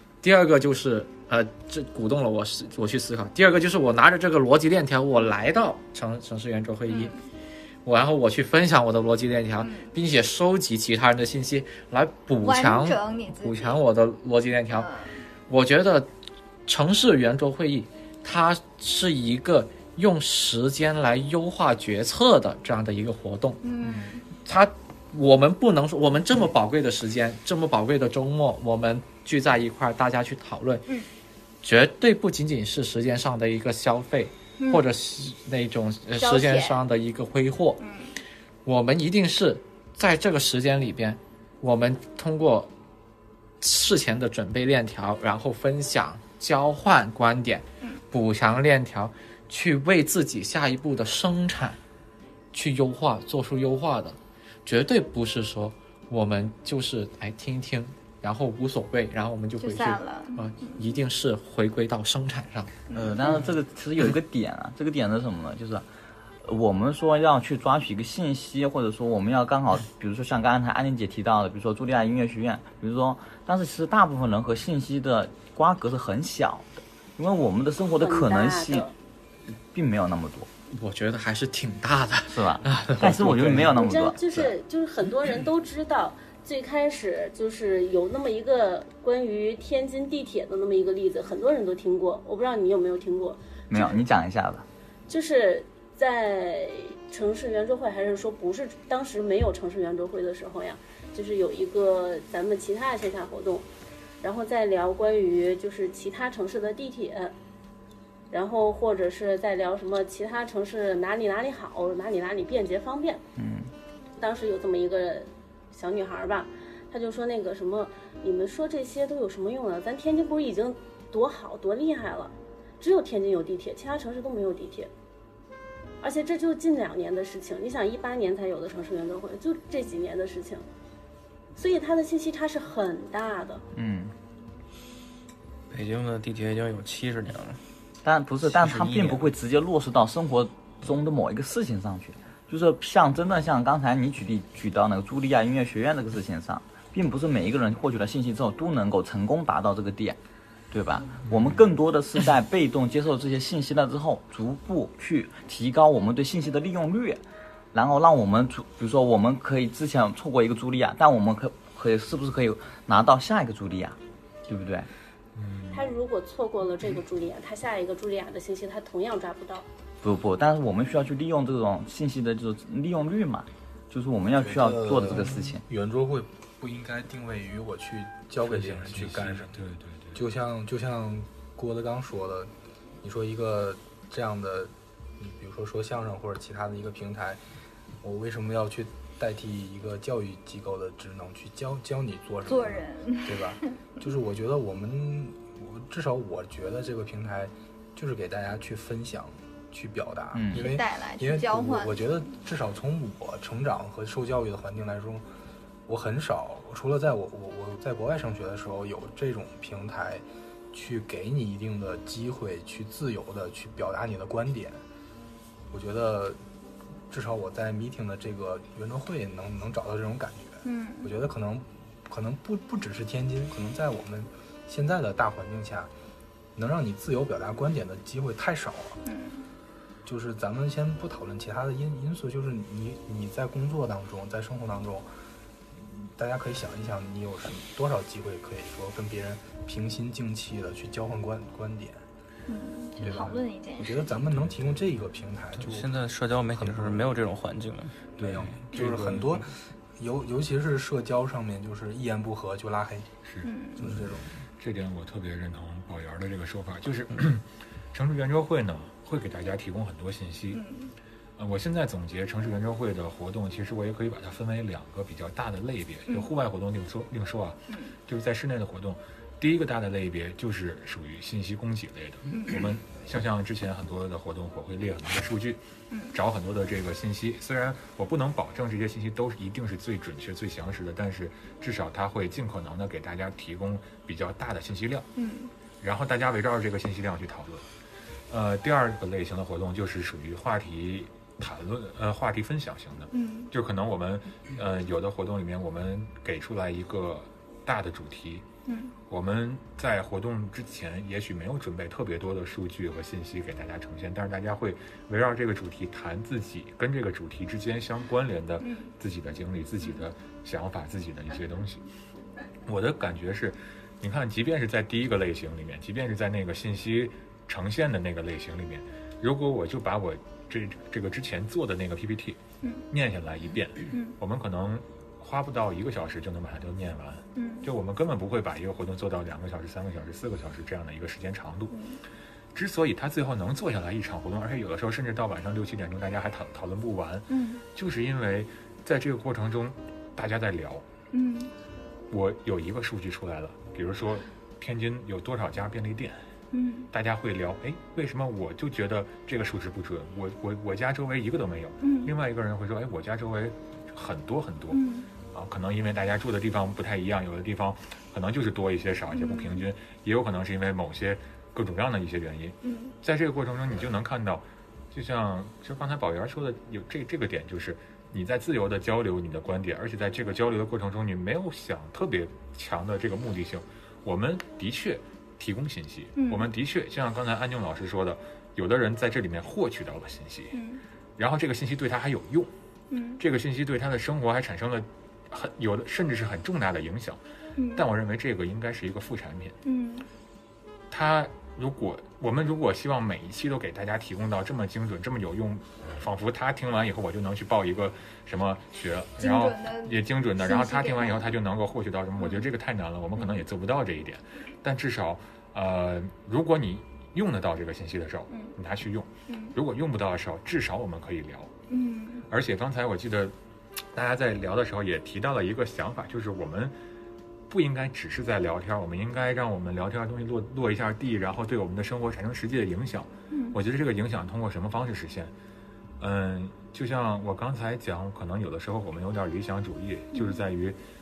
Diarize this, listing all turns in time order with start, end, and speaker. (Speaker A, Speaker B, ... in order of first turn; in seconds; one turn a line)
Speaker A: 0.2-7.2
Speaker B: 6.9-7.2
Speaker A: 7.8-14.9
Speaker B: 9.6-9.9
Speaker B: 12.4-13.8
Speaker B: 14.7-15.2
Speaker A: 15.5-16.1
Speaker A: 16.6-23.6
Speaker B: 23.6-24.3
Speaker A: 24.4-30.8
Speaker A: 31.6-37.8
Speaker B: 34.6-34.8
Speaker B: 36.2-36.8
Speaker B: 37.8-38.1
Speaker A: 38.6-42.7
Speaker A: 43.6-51.8
Speaker A: 52.5-62.8
Speaker B: 59.6-60.7
Speaker C: 62.9-65.8
Speaker C: 66.4-78.9
Speaker D: 78.0-78.9
Speaker C: 79.7-80.5
Speaker A: 80.7-83.8
Speaker C: 82.3-84.5
Speaker D: 83.7-94.0
Speaker C: 93.7-94.7
Speaker D: 95.1-103.7
Speaker D: 104.2-107.3
Speaker D: 108.3-113.2
Speaker C: 113.3-113.7
Speaker D: 114.2-124.9
Speaker D: 126.0-130.6
Speaker D: 131.6-133.6
Speaker C: 133.7-134.1
Speaker E: 135.7-137.6
Speaker C: 138.0-150.2
Speaker E: 138.4-139.2
Speaker C: 150.7-157.2
Speaker F: 151.3-151.6
Speaker C: 157.7-164.9
Speaker F: 165.3-165.9
Speaker D: 165.7-169.7
Speaker C: 170.0-175.6
Speaker G: 174.3-179.6
Speaker F: 178.4-180.2
Speaker G: 180.1-182.5
Speaker G: 183.0-187.4
Speaker G: 188.0-205.2
Speaker B: 192.4-193.5
Speaker C: 200.3-200.7
Speaker B: 200.5-202.1
Speaker G: 205.9-214.8
Speaker G: 215.7-216.4
Speaker G: 217.1-225.9
Speaker B: 220.6-221.1
Speaker G: 226.6-229.0
Speaker B: 229.0-229.4
Speaker G: 230.0-235.1
Speaker G: 235.8-242.0
Speaker B: 242.5-244.2
Speaker G: 243.0-245.9
Speaker E: 245.5-247.9
Speaker G: 246.5-247.1
Speaker G: 248.2-253.1
Speaker F: 248.2-249.4
Speaker B: 253.4-253.9
Speaker G: 253.8-254.3
Speaker F: 254.6-260.6
Speaker B: 260.5-260.9
Speaker F: 261.4-275.6
Speaker B: 267.7-267.9
Speaker B: 272.3-272.6
Speaker B: 275.9-276.1
Speaker F: 276.1-285.1
Speaker B: 285.1-285.5
Speaker F: 285.8-287.6
Speaker F: 288.3-298.4
Speaker B: 293.1-293.5
Speaker B: 298.6-298.9
Speaker F: 299.1-311.8
Speaker B: 308.6-308.9
Speaker F: 312.6-322.4
Speaker F: 322.9-331.7
Speaker B: 327.3-327.7
Speaker B: 331.7-332.0
Speaker F: 332.5-340.8
Speaker B: 337.3-337.6
Speaker B: 341.1-341.5
Speaker F: 342.1-346.2
Speaker B: 346.5-346.9
Speaker F: 346.9-380.6
Speaker B: 351.8-352.1
Speaker B: 354.7-355.1
Speaker B: 359.1-359.6
Speaker B: 362.6-362.9
Speaker B: 376.1-376.5
Speaker B: 380.5-380.8
Speaker F: 381.2-382.5
Speaker B: 382.9-383.2
Speaker F: 383.2-387.2
Speaker B: 387.6-387.8
Speaker F: 387.7-389.6
Speaker B: 389.6-390.1
Speaker F: 390.9-411.5
Speaker B: 399.2-401.3
Speaker B: 402.2-402.5
Speaker B: 409.3-409.6
Speaker B: 411.7-412.2
Speaker F: 412.3-413.3
Speaker F: 413.9-416.7
Speaker F: 417.5-425.3
Speaker B: 423.3-423.6
Speaker F: 426.0-430.8
Speaker B: 430.1-430.4